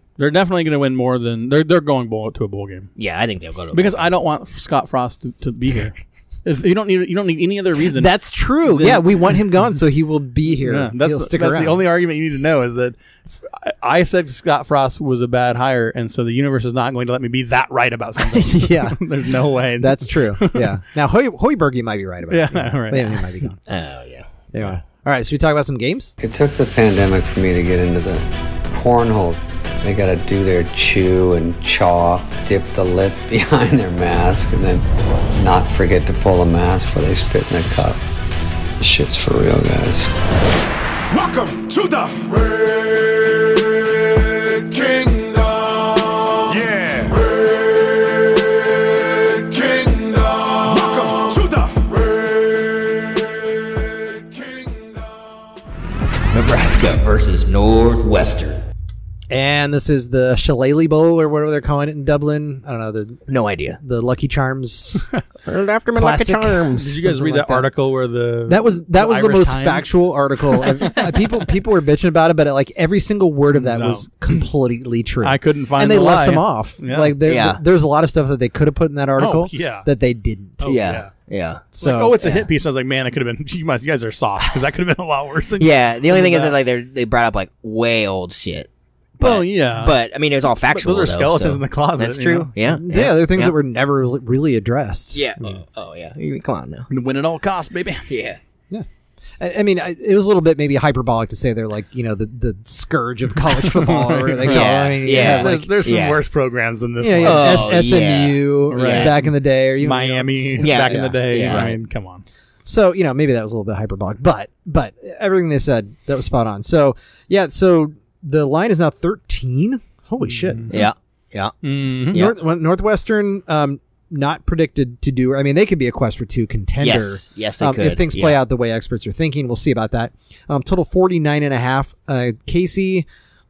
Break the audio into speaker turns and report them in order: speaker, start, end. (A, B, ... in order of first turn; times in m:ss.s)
0:00.2-0:02.9 A
0:03.0-0:04.1 B
0:03.7-0:09.4 A
0:08.0-0:11.8 C
0:10.5-0:20.8 A
0:18.2-0:19.0 C
0:19.8-0:23.6 C
0:22.3-0:23.5 A
0:23.7-0:24.7 B
0:24.5-0:26.1 C
0:26.2-0:38.0 D
0:38.8-0:40.1 D
0:41.1-0:43.5 E
0:44.3-0:48.4 E
0:49.0-0:55.1 E
0:56.3-0:58.6 B
0:59.3-1:03.2 C
1:03.3-1:03.8 B
1:03.8-1:05.1 C
1:05.4-1:06.9 B
1:06.0-1:07.7 C
1:06.8-1:11.4 A
1:08.5-1:20.7 C
1:13.5-1:14.1 A
1:15.2-1:17.2 A
1:17.2-1:17.6 B
1:19.2-1:19.9 A
1:20.6-1:21.1 A
1:20.6-1:21.6 B
1:21.7-1:22.2 C
1:21.8-1:26.5 A
1:22.2-1:22.5 B
1:25.6-1:28.7 B
1:29.2-1:30.0 A
1:29.2-1:33.6 B
1:30.7-1:32.5 A
1:32.6-1:35.6 C
1:35.1-1:36.9 B
1:36.9-1:38.1 A
1:38.1-1:38.4 B
1:39.4-1:45.7 C
1:43.5-1:47.8 A
1:44.4-1:46.2 B
1:47.0-1:51.8 C
1:47.2-1:49.1 B
1:48.7-1:52.2 A
1:50.6-1:51.7 B
1:52.7-2:00.7 C
2:00.2-2:00.8 A
2:00.7-2:01.5 B
2:01.6-2:02.3 A
2:02.1-2:13.1 C
2:06.8-2:08.4 B